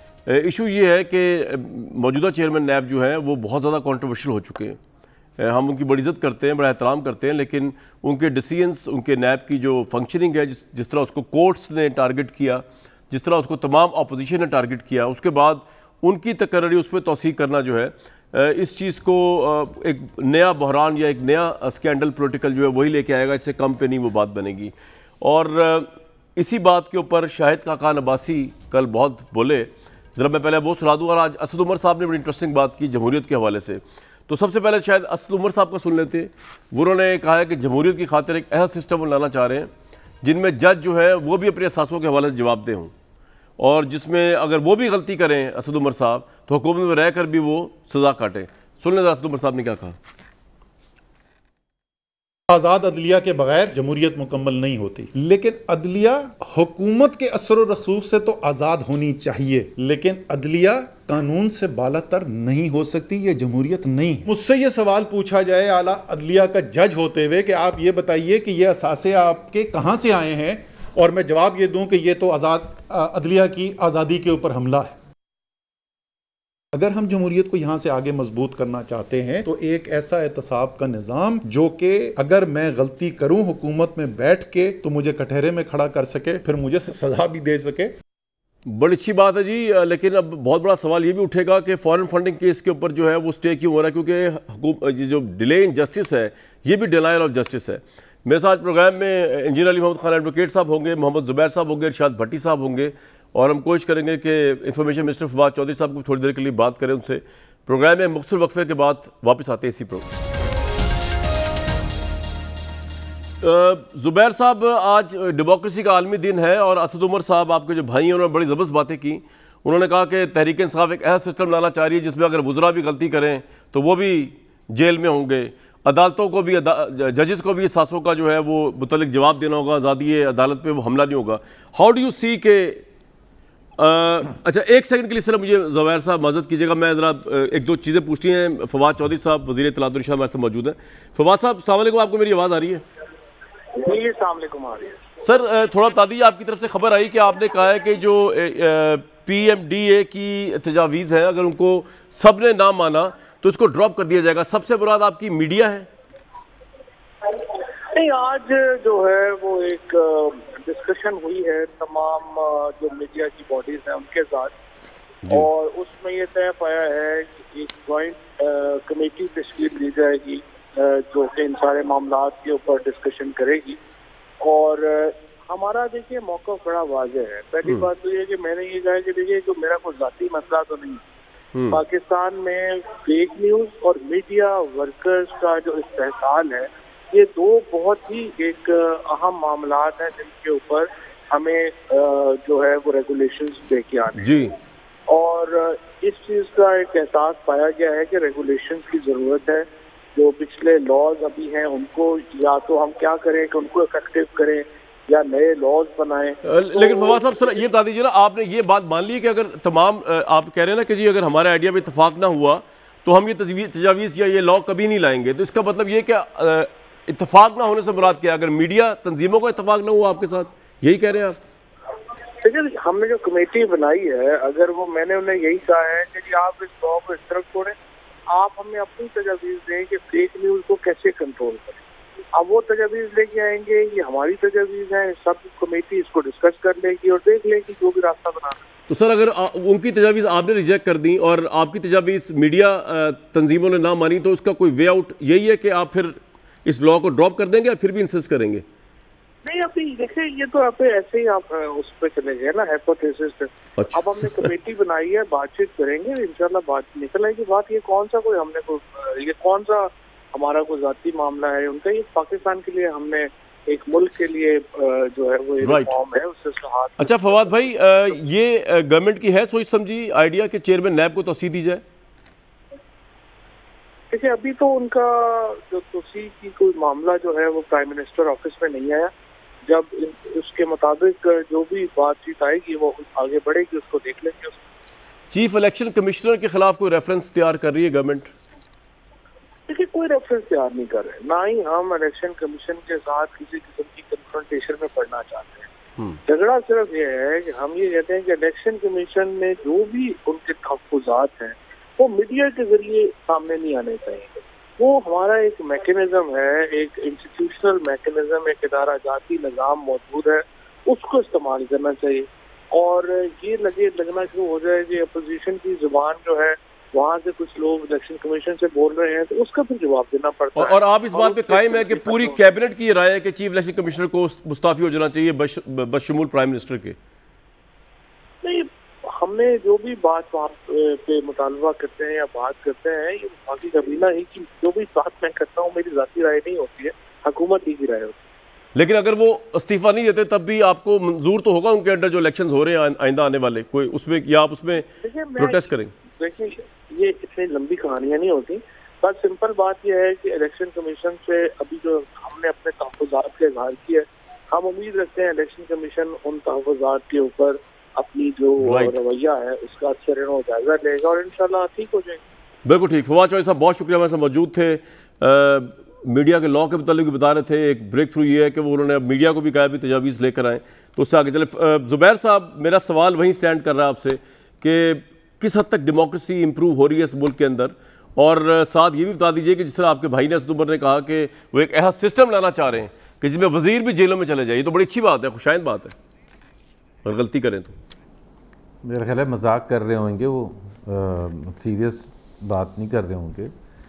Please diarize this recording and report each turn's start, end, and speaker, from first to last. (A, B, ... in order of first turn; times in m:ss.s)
0:00.2-0:04.8 A
0:05.4-0:39.7 A
0:40.2-0:42.9 A
0:43.6-0:49.9 A
0:52.5-1:15.0 B
1:16.7-1:27.9 B
1:28.6-1:50.0 A
1:53.4-2:12.8 A
2:13.8-2:22.8 A
2:23.8-2:25.0 C
2:25.2-2:35.9 A
2:37.9-2:44.5 C
2:45.3-2:53.8 C
2:54.4-3:01.0 C
3:01.5-3:01.8 A
3:01.7-3:14.4 C
3:14.2-3:14.5 A
3:15.1-3:27.6 C
3:26.4-3:41.4 A
3:42.4-3:47.7 C
3:48.3-3:51.8 C
3:52.3-3:58.6 C
3:58.9-4:08.6 A
4:09.4-4:27.8 C
4:13.8-4:14.5 A
4:25.6-4:25.9 A
4:27.0-4:31.8 A
4:34.1-4:39.1 C
4:39.6-4:44.6 C
4:45.3-4:48.3 A
4:49.7-4:55.7 C
4:56.3-5:22.4 C
5:20.5-5:27.0 A
5:28.4-5:38.2 C
5:38.7-5:44.8 A
5:44.9-6:02.2 C
5:45.4-5:45.9 A
5:58.6-5:58.9 A
6:02.6-6:25.9 A
6:27.0-6:27.7 A
6:28.8-6:33.5 D